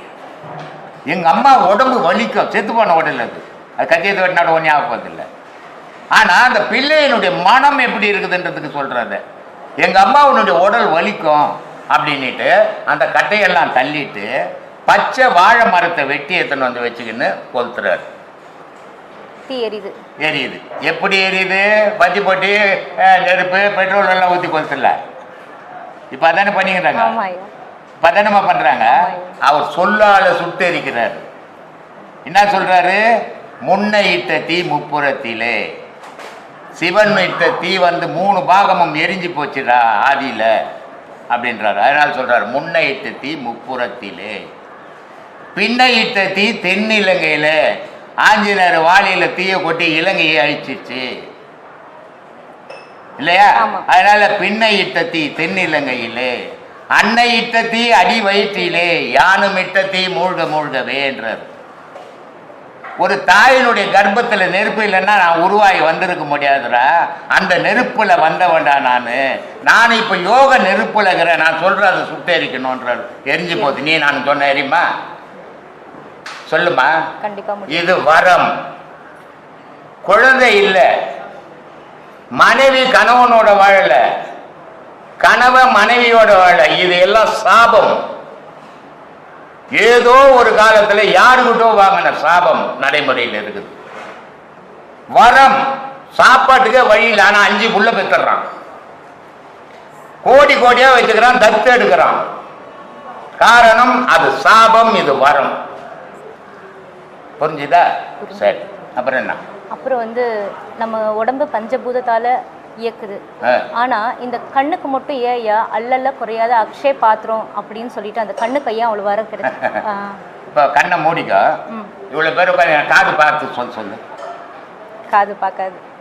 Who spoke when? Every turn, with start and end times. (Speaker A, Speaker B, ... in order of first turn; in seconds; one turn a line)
Speaker A: 1.1-5.2
Speaker A: 6.1-9.2
Speaker A: 9.8-14.3
Speaker A: 14.8-18.1
Speaker B: 19.5-19.9
Speaker A: 20.2-25.0
Speaker A: 26.1-27.1
Speaker B: 26.9-27.5
Speaker A: 28.0-31.2
Speaker B: 28.9-29.4
Speaker A: 32.2-33.0
Speaker A: 33.6-35.6
Speaker A: 36.8-40.5
Speaker A: 41.3-44.4
Speaker A: 45.5-47.6
Speaker A: 48.2-51.1
Speaker A: 53.2-56.4
Speaker B: 53.6-53.8
Speaker A: 56.9-61.5
Speaker A: 63.0-74.8
Speaker A: 76.5-76.9
Speaker B: 77.2-77.9
Speaker A: 77.7-78.5
Speaker A: 80.0-80.9
Speaker A: 82.4-84.0
Speaker A: 85.2-88.0
Speaker A: 89.7-93.7
Speaker A: 95.1-95.6
Speaker A: 96.1-98.5
Speaker A: 100.2-102.2
Speaker A: 103.4-105.6
Speaker A: 107.4-109.4
Speaker B: 108.2-108.6
Speaker B: 109.7-110.2
Speaker B: 110.8-113.2
Speaker B: 113.7-120.2
Speaker A: 119.5-119.8
Speaker A: 120.5-121.5
Speaker A: 122.1-124.0
Speaker B: 125.1-125.8